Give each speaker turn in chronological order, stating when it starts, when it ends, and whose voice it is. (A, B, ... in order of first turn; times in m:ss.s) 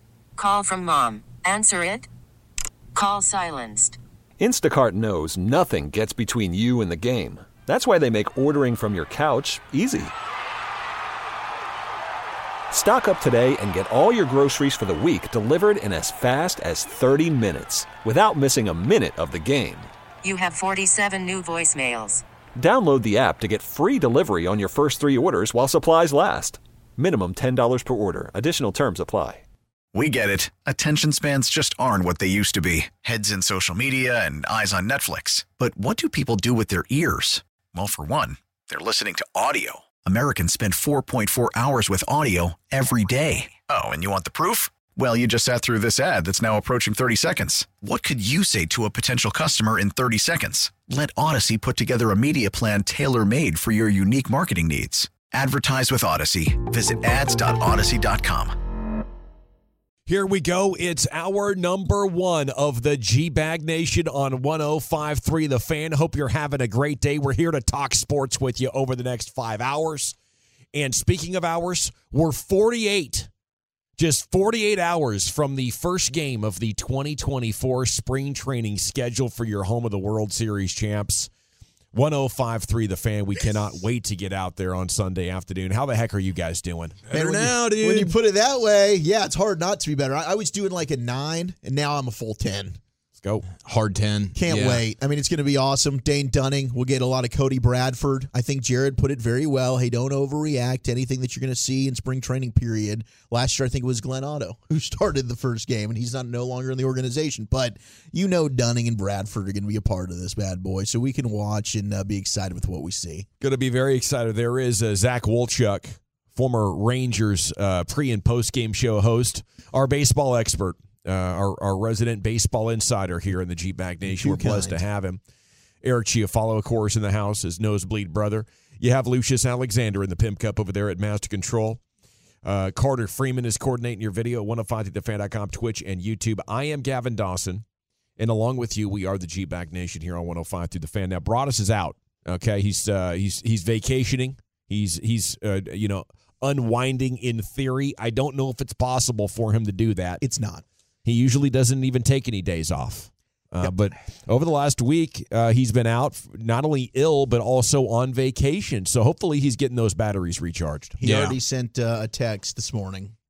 0:00.4-0:02.1 A
0:03.0-0:04.0 A
0:04.4-0:10.1 B
0:12.7-0:19.9 B
0:20.2-0:22.2 A
0:22.6-0:29.4 B
0:29.9-0:58.6 C
1:00.1-1:10.2 D
1:10.7-1:13.3 D
1:14.0-1:21.3 D
1:21.9-1:27.0 D
1:27.1-1:28.1 E
1:27.1-1:32.8 F
1:33.2-1:33.5 D
1:33.6-1:34.8 E
1:34.4-1:53.3 F
1:53.4-2:05.2 D
2:04.0-2:04.8 F
2:05.8-2:11.8 D
2:12.4-2:17.6 D
2:18.2-2:30.2 D
2:30.2-2:30.6 F
2:31.0-2:41.0 D
2:41.0-2:43.2 F
2:41.0-2:41.4 E